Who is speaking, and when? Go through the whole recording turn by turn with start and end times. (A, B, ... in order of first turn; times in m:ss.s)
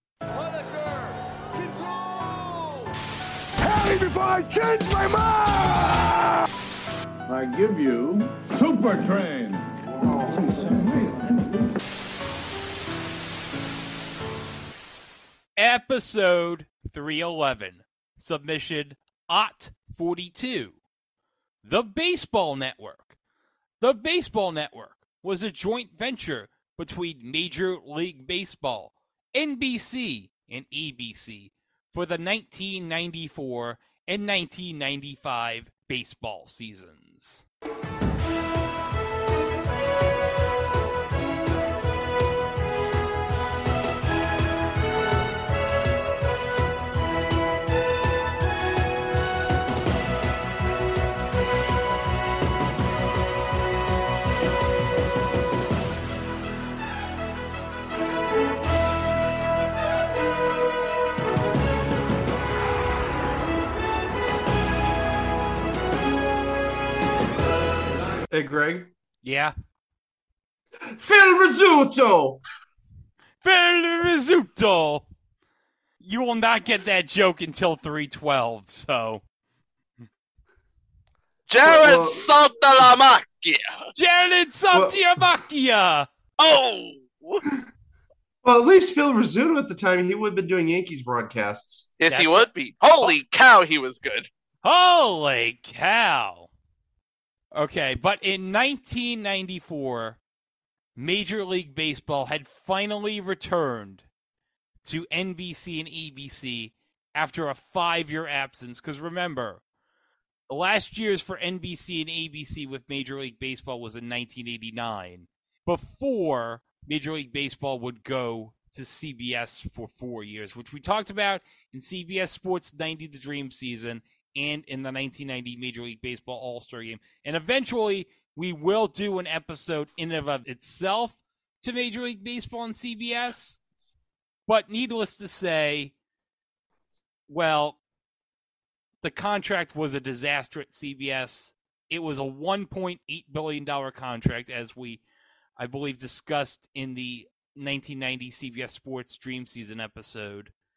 0:03.7-0:06.1 A
0:07.3-0:09.7 B
0:10.3-0:11.6 B
0:15.6-0:20.8 C
0:21.6-0:23.2 C
0:23.8-0:37.4 C
1:08.3-1:08.9 D
1:09.2-1:09.5 C
1:10.9-1:12.4 D
1:13.4-1:15.1 C
1:16.0-1:19.2 C
1:21.5-1:23.7 E
1:21.6-1:22.4 D
1:24.0-1:26.1 C
1:24.7-1:25.0 D
1:26.4-1:27.4 E
1:28.4-1:31.9 D
1:32.0-1:34.3 E
1:32.1-1:32.5 C
1:34.6-1:36.5 C
1:37.5-1:40.2 C
1:41.0-1:44.1 C
1:44.8-1:49.6 C
1:50.5-2:13.6 C
2:14.5-2:15.9 C
2:17.3-2:17.8 C
2:19.0-2:25.0 C
2:25.6-2:30.5 C